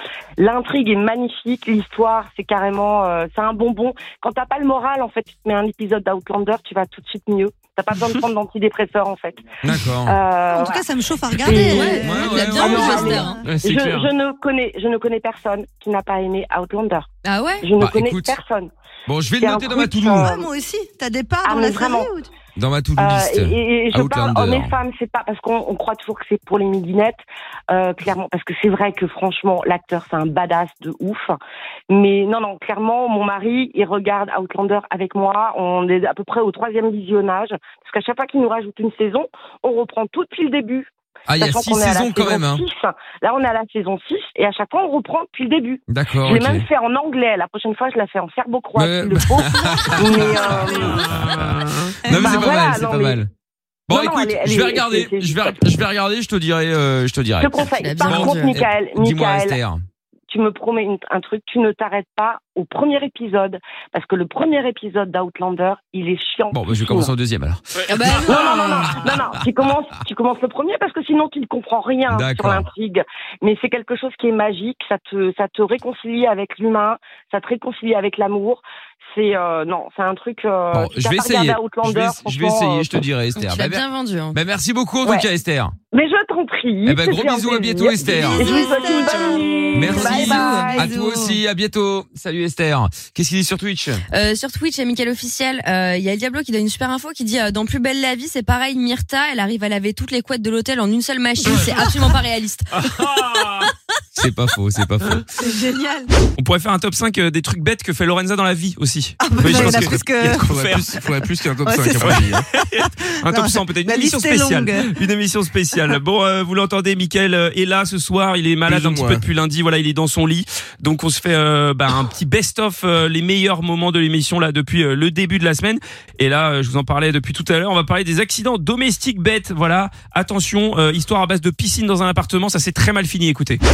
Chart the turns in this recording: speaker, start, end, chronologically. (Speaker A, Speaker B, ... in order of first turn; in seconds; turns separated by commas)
Speaker A: 0.4-17.1, Speaker B: 9.6-10.2, Speaker C: 10.5-13.4, Speaker D: 11.5-13.4, Speaker B: 12.0-13.2, Speaker E: 13.4-14.1, Speaker D: 17.2-17.7, Speaker A: 17.6-18.7, Speaker B: 17.8-18.4, Speaker B: 19.1-20.3, Speaker A: 19.4-20.5, Speaker C: 20.2-22.3, Speaker A: 21.4-22.1, Speaker B: 22.6-24.8, Speaker A: 23.0-31.4, Speaker A: 31.9-51.2, Speaker B: 41.3-42.6, Speaker B: 45.9-46.7, Speaker B: 48.8-51.4, Speaker E: 50.7-52.0, Speaker B: 52.1-53.3, Speaker A: 52.1-53.2, Speaker B: 53.9-59.8, Speaker A: 53.9-55.8, Speaker A: 57.4-59.6, Speaker D: 57.8-58.6, Speaker A: 60.3-67.1, Speaker B: 66.5-67.6, Speaker D: 67.9-69.1, Speaker A: 68.3-82.9, Speaker B: 72.1-72.7, Speaker B: 80.7-85.7, Speaker D: 83.4-84.4, Speaker A: 85.9-90.9, Speaker B: 86.8-88.5, Speaker C: 88.1-91.4, Speaker B: 89.7-94.0, Speaker D: 89.9-90.7, Speaker D: 94.1-102.7, Speaker E: 102.7-103.7, Speaker B: 104.2-105.2, Speaker C: 105.4-106.1, Speaker E: 106.4-111.0, Speaker C: 109.2-110.4, Speaker F: 109.4-112.4, Speaker C: 111.7-115.0, Speaker E: 112.0-133.6, Speaker F: 118.7-119.2